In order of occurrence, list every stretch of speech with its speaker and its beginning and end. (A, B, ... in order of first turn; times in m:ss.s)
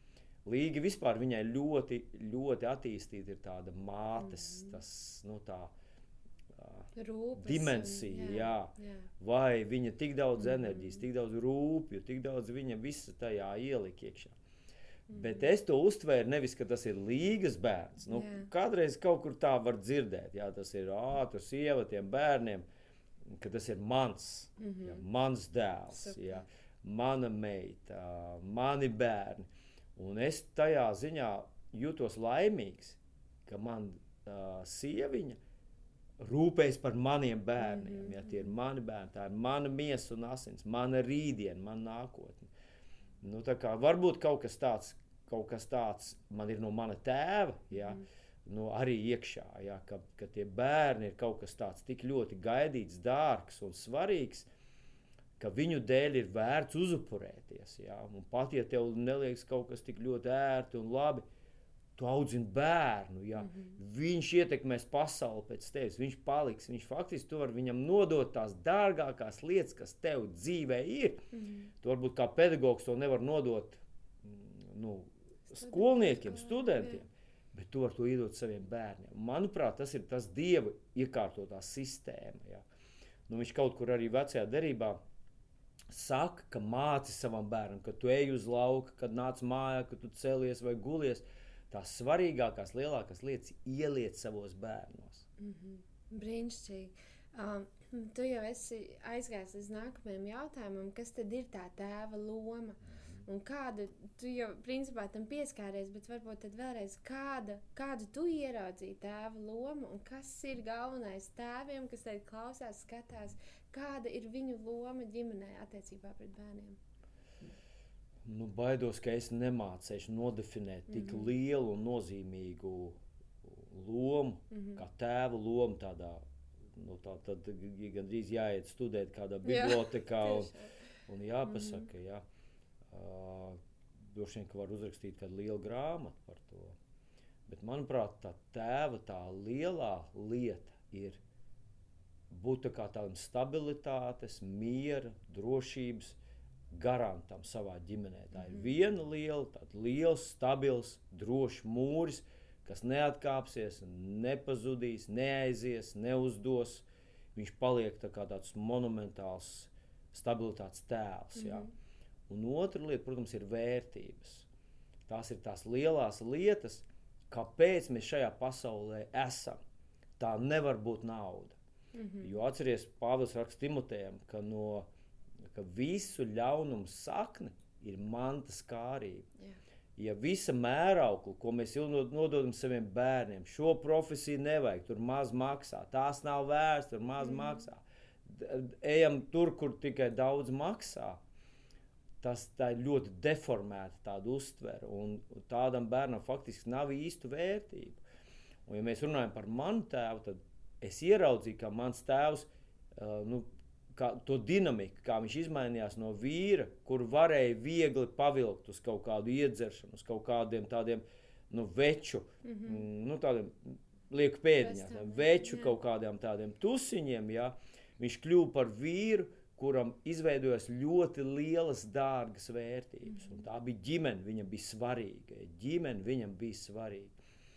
0:00.4-0:05.7 A
0:04.2-0:04.8 B
0:06.5-0:14.4 A
0:07.0-0:09.1 B
0:10.4-0:11.0 B
0:15.1-0:22.6 A
0:15.1-0:15.4 B
0:18.1-0:18.5 B
0:23.3-0:35.4 A
0:24.6-0:25.0 B
0:25.9-0:26.4 B
0:36.2-0:42.5 A
0:37.6-0:38.5 B
0:43.2-0:54.5 A
0:47.7-0:48.0 B
0:55.4-1:01.2 A
1:02.0-1:11.2 A
1:03.4-1:03.8 B
1:11.3-1:11.7 B
1:11.8-1:22.6 A
1:15.5-1:17.0 B
1:23.3-1:25.0 A
1:25.9-1:35.3 A
1:35.4-1:56.8 B
1:58.2-2:10.5 A
2:00.9-2:01.3 B
2:04.5-2:04.8 B
2:09.4-2:10.7 B
2:11.1-2:12.2 A
2:11.5-2:11.9 B
2:12.9-2:13.6 A
2:14.1-2:16.8 A
2:17.5-2:21.2 A
2:22.3-2:26.2 A
2:26.7-2:41.7 A
2:28.4-2:28.7 B
2:41.4-2:41.7 B
2:42.3-2:44.5 A
2:45.1-2:49.6 A
2:50.2-2:51.6 A
2:52.0-2:52.4 B
2:52.2-2:54.9 A
2:55.5-2:59.3 A
3:00.0-3:11.2 A
3:07.2-3:07.6 B
3:12.2-3:18.0 A
3:18.7-3:47.2 A
3:32.4-3:32.8 B
3:34.6-3:35.7 B
3:43.1-3:43.4 B